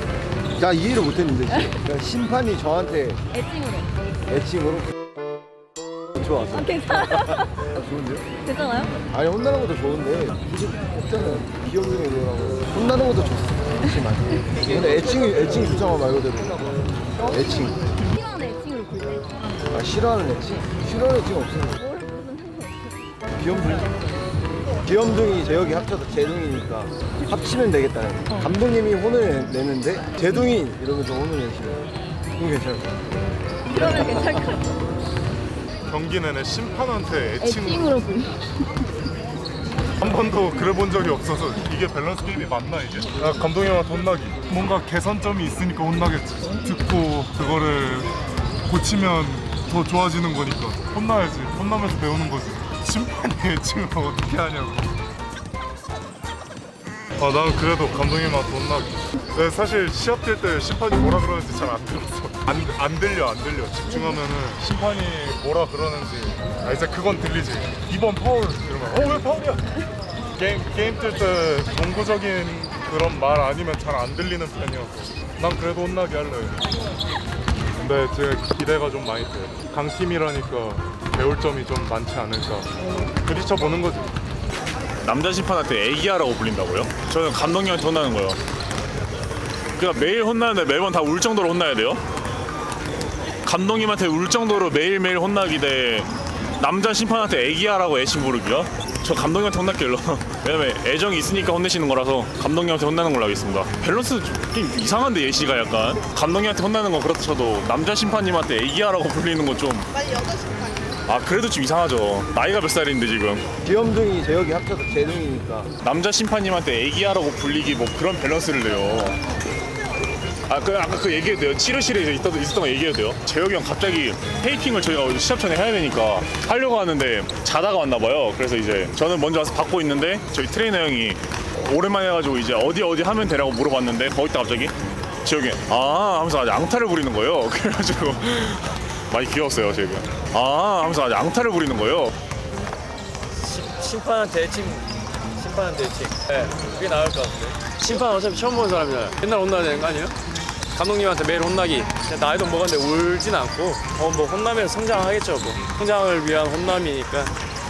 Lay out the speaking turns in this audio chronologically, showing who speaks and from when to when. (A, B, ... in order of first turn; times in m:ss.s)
0:00.6-0:03.2 A
0:03.3-0:03.9 B
0:04.3-0:04.9 A
0:06.2-0:06.8 A
0:06.5-0:07.5 B
0:07.8-0:08.3 A
0:08.4-0:09.0 B
0:09.1-0:17.9 A
0:17.2-0:19.5 B
0:19.7-0:21.8 A
0:21.8-0:23.0 B
0:23.4-0:24.0 A
0:24.8-0:33.0 A
0:33.7-0:34.7 B
0:35.9-0:38.2 C
0:37.4-0:38.4 B
0:40.0-0:48.1 C
0:48.7-0:54.9 C
0:57.2-1:09.8 C
1:10.4-1:16.6 C
1:17.8-1:22.7 C
1:23.2-1:24.2 C
1:25.0-1:28.4 D
1:29.8-1:32.0 D
1:33.4-1:49.9 D
1:51.1-1:53.5 D
1:53.6-1:55.7 A
1:55.8-1:59.2 D
2:00.5-2:22.1 D
2:23.3-2:30.2 E
2:30.7-2:37.3 E